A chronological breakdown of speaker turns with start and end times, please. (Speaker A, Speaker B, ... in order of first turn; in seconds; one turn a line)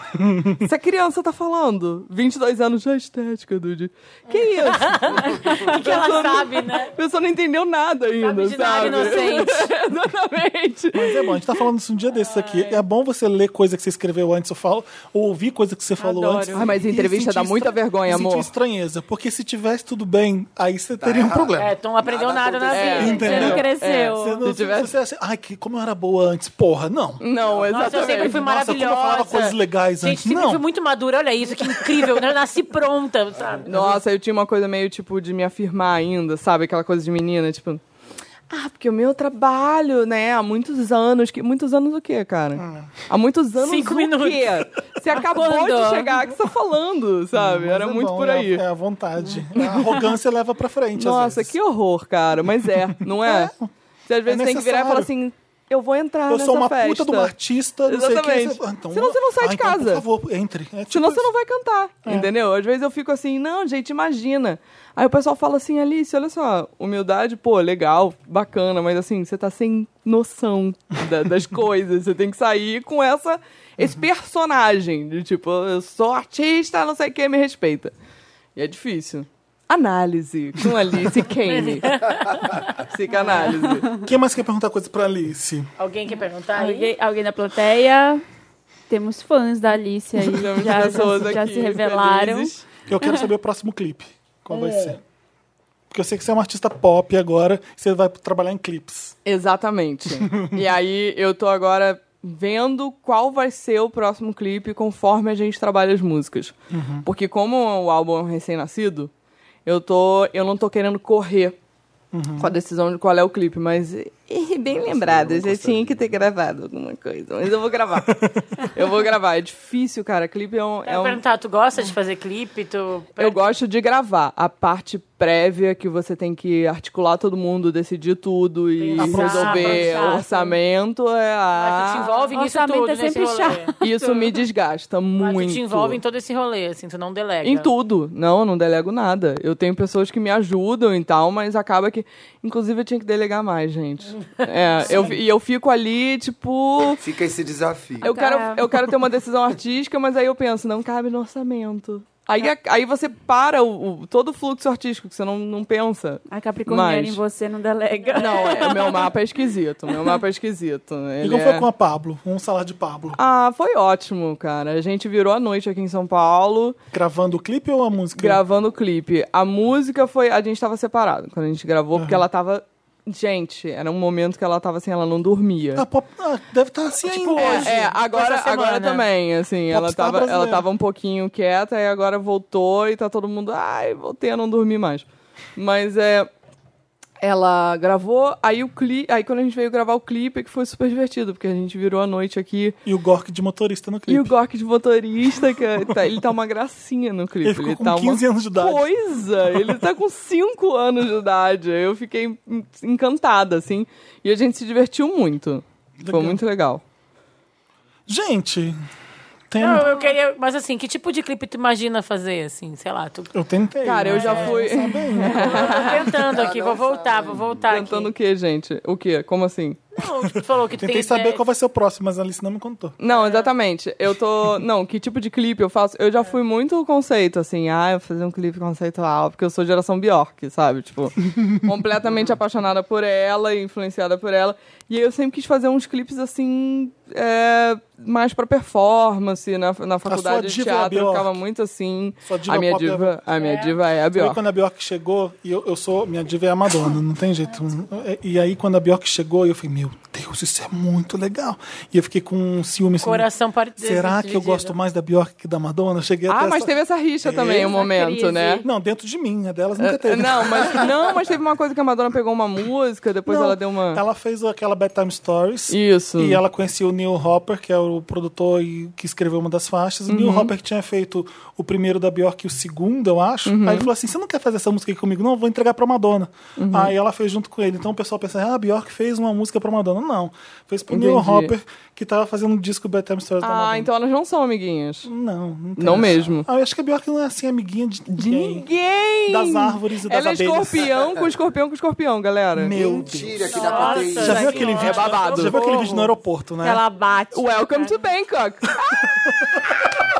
Speaker A: 0.2-0.6
Speaker B: 0.5-11.5
Speaker C: 4.3-6.9
Speaker C: 8.2-9.7
Speaker A: 10.9-21.7
Speaker D: 16.0-16.7
Speaker B: 16.5-18.5
Speaker E: 21.0-23.6
Speaker C: 21.6-23.6
Speaker B: 22.7-24.9
Speaker A: 23.0-27.2
Speaker D: 23.1-24.4
Speaker B: 27.2-28.4
Speaker C: 27.7-33.9
Speaker A: 28.2-30.6
Speaker A: 31.8-32.1
Speaker B: 33.7-37.8
Speaker B: 38.5-48.6
Speaker A: 42.6-42.9
Speaker C: 43.6-44.6
Speaker D: 45.3-46.1
Speaker A: 47.3-51.6
Speaker B: 49.6-49.9
Speaker B: 51.0-53.5
Speaker A: 52.7-53.7
Speaker B: 54.1-57.3
Speaker A: 54.3-55.1
Speaker A: 56.3-61.3
Speaker B: 57.9-60.0
Speaker B: 60.9-77.9
Speaker A: 73.8-74.0
Speaker B: 78.6-82.1
Speaker C: 81.5-82.3
Speaker B: 82.8-83.9
Speaker A: 84.0-85.7
Speaker C: 85.8-86.9
Speaker D: 86.6-88.2
Speaker D: 88.9-93.3
Speaker B: 90.3-92.6
Speaker A: 90.8-91.0
Speaker A: 92.9-95.0
Speaker A: 95.9-99.2
Speaker B: 99.3-109.1
Speaker A: 100.2-100.6
Speaker A: 106.7-107.1
Speaker B: 109.7-111.6
Speaker A: 112.1-112.5
Speaker B: 112.4-121.2
Speaker E: 114.7-116.1
Speaker A: 118.1-118.4
Speaker C: 120.9-123.4
Speaker B: 123.2-132.1
Speaker C: 128.8-130.2
Speaker A: 129.0-129.9
Speaker D: 129.1-130.5
Speaker C: 131.6-133.7
Speaker D: 132.3-134.3
Speaker B: 133.8-136.0
Speaker C: 135.2-137.7
Speaker B: 137.4-147.0
Speaker C: 144.4-145.1
Speaker E: 147.0-148.1
Speaker B: 148.0-157.2
Speaker D: 148.0-148.6
Speaker D: 156.3-159.2
Speaker B: 158.1-161.7
Speaker A: 161.2-163.2
Speaker B: 163.2-166.8
Speaker A: 166.9-168.4
Speaker B: 168.2-175.8
Speaker A: 171.9-172.2
Speaker A: 175.8-177.9
Speaker C: 177.0-179.1
Speaker B: 177.4-185.1
Speaker A: 179.7-180.6
Speaker B: 185.6-186.3
Speaker B: 187.2-192.8
Speaker A: 192.9-194.3
Speaker B: 194.1-206.8
Speaker A: 197.4-198.9
Speaker A: 199.4-199.8
Speaker A: 206.0-206.4
Speaker A: 208.1-208.8
Speaker A: 209.5-209.9
Speaker C: 209.6-213.3
Speaker A: 213.3-215.8
Speaker B: 213.8-216.2
Speaker C: 214.1-214.6
Speaker C: 215.2-218.1
Speaker E: 216.2-217.7
Speaker B: 217.7-219.8
Speaker C: 219.9-221.4
Speaker A: 220.8-222.9
Speaker B: 223.0-244.4
Speaker C: 223.1-223.5
Speaker A: 240.1-241.3
Speaker A: 242.2-243.2
Speaker C: 243.4-243.7
Speaker A: 244.1-256.7
Speaker C: 253.0-254.8
Speaker B: 256.3-258.6
Speaker A: 257.2-257.8
Speaker D: 257.7-258.6
Speaker A: 258.6-261.0
Speaker B: 259.8-264.0
Speaker A: 263.3-283.9
Speaker B: 265.7-266.4
Speaker B: 270.1-270.5
Speaker B: 273.5-273.9
Speaker B: 276.6-276.9
Speaker B: 280.9-281.5
Speaker B: 283.4-285.1
Speaker A: 285.1-288.7
Speaker B: 285.8-286.5
Speaker B: 288.1-292.8
Speaker A: 289.3-291.0
Speaker A: 292.6-296.8
Speaker E: 292.7-294.9
Speaker C: 293.5-296.0
Speaker D: 293.6-296.1
Speaker B: 294.7-295.6
Speaker D: 296.6-298.1
Speaker B: 297.3-299.1
Speaker A: 299.1-299.6